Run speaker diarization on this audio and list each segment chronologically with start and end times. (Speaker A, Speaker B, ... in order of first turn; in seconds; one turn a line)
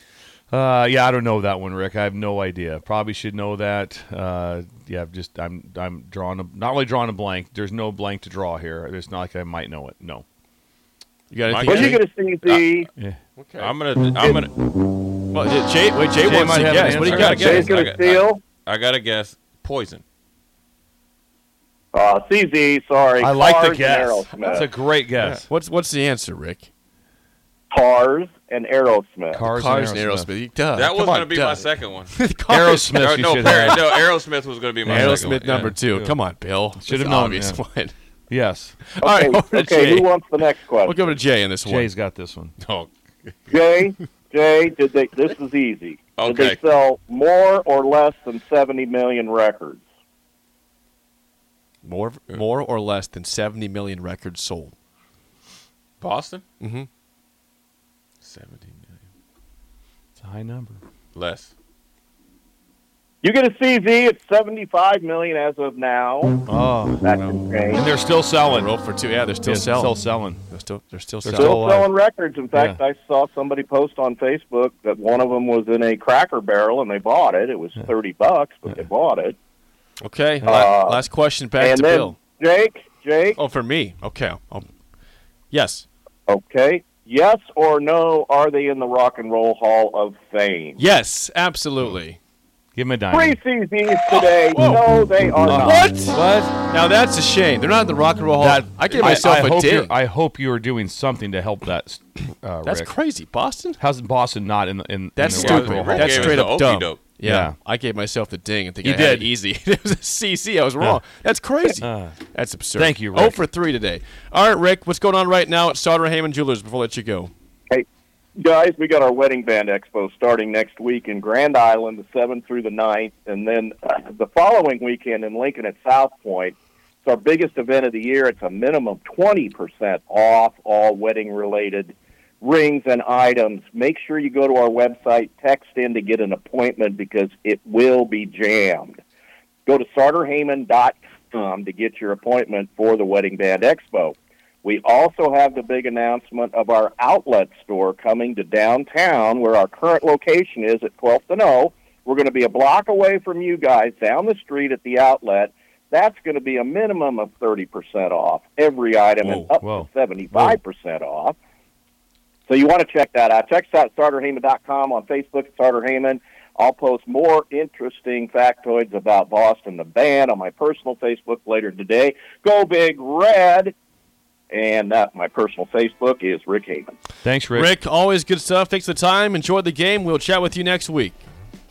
Speaker A: 0.5-10.2
Speaker B: 11.3-12.0
Speaker C: 11.4-12.6
Speaker D: 11.7-12.9
Speaker B: 13.4-13.7
Speaker C: 13.6-14.6
Speaker B: 15.3-17.8
Speaker A: 16.2-17.7
Speaker C: 16.9-20.0
Speaker D: 17.4-18.4
Speaker D: 21.9-24.7
Speaker A: 23.2-25.4
Speaker C: 25.2-25.4
Speaker B: 25.5-26.7
Speaker D: 27.7-29.4
Speaker A: 29.3-30.3
Speaker B: 29.5-33.8
Speaker C: 30.7-32.2
Speaker A: 32.5-34.0
Speaker C: 32.9-35.8
Speaker A: 34.8-36.2
Speaker B: 34.9-37.9
Speaker A: 36.8-37.6
Speaker A: 38.3-38.8
Speaker B: 38.9-40.2
Speaker D: 39.0-41.1
Speaker B: 40.8-41.9
Speaker A: 41.6-42.9
Speaker D: 43.5-49.8
Speaker C: 46.1-46.6
Speaker B: 51.8-54.7
Speaker C: 56.0-56.4
Speaker B: 56.6-56.9
Speaker C: 58.2-59.0
Speaker A: 60.2-60.8
Speaker C: 61.1-61.5
Speaker D: 63.2-66.4
Speaker A: 66.4-67.0
Speaker D: 67.0-67.8
Speaker A: 67.7-68.7
Speaker B: 68.4-71.6
Speaker A: 69.4-70.4
Speaker A: 71.2-71.9
Speaker D: 71.3-79.3
Speaker A: 72.5-72.8
Speaker B: 80.0-82.2
Speaker D: 80.4-81.0
Speaker D: 81.6-83.4
Speaker B: 83.4-84.7
Speaker B: 85.5-85.8
Speaker D: 86.3-90.8
Speaker B: 90.8-92.2
Speaker A: 92.7-93.4
Speaker D: 93.1-95.9
Speaker B: 94.1-94.9
Speaker A: 95.4-96.6
Speaker B: 95.4-99.9
Speaker A: 98.4-102.9
Speaker C: 98.9-99.2
Speaker B: 102.6-103.8
Speaker A: 103.8-106.5
Speaker B: 105.2-117.3
Speaker C: 105.2-107.0
Speaker A: 107.2-107.5
Speaker A: 108.8-109.3
Speaker A: 111.8-112.2
Speaker A: 112.7-113.4
Speaker D: 118.4-139.0
Speaker D: 139.7-161.3
Speaker B: 159.2-159.5
Speaker A: 159.6-159.9
Speaker D: 162.5-173.7
Speaker D: 174.5-176.9
Speaker A: 177.2-177.7
Speaker B: 177.5-181.2